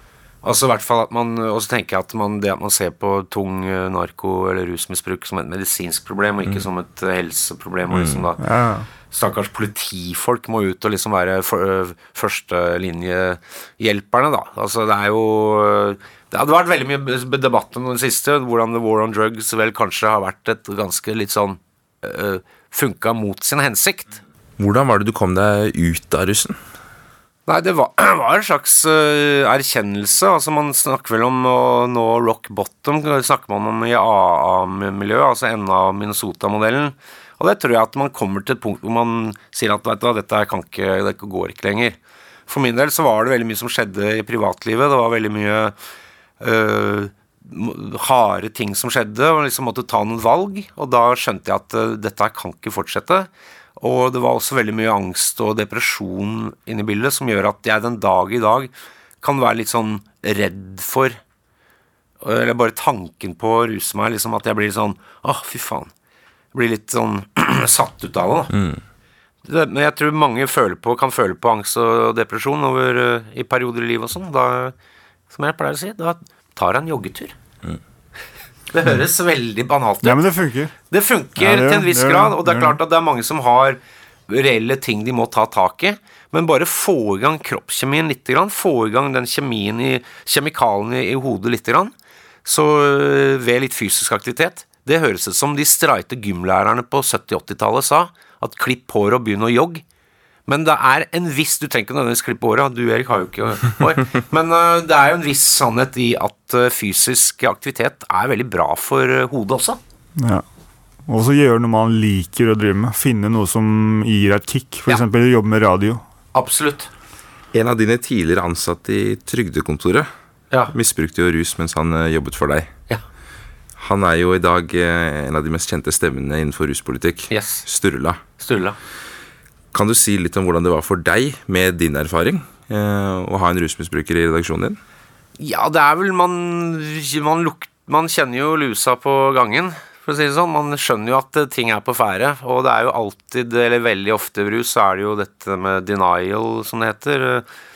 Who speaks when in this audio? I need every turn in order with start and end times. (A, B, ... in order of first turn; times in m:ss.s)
0:00.4-0:08.4 A
0:07.9-0:08.2 B
0:08.4-0:08.9 C
0:09.1-0:24.2 A
0:24.6-0:26.6 B
0:27.5-0:42.0 A
0:42.5-0:45.7 A
0:46.4-1:01.2 A
1:02.2-1:05.9 A
1:06.5-1:08.5 A
1:08.5-1:08.8 B
1:09.4-1:14.7 A
1:15.3-1:17.3 A
1:18.7-1:20.2 A
1:20.0-1:20.7 C
1:20.9-1:31.9 A
1:21.4-1:22.8 C
1:32.4-1:39.8 A
1:40.5-1:49.8 A
1:50.2-1:50.4 C
1:51.0-1:56.0 C
1:56.3-1:56.9 A
1:57.5-2:00.1 B
2:00.7-2:02.7 B
2:03.8-2:08.2 B
2:07.3-2:07.6 A
2:08.4-2:08.8 A
2:09.7-2:14.8 B
2:15.4-2:27.4 A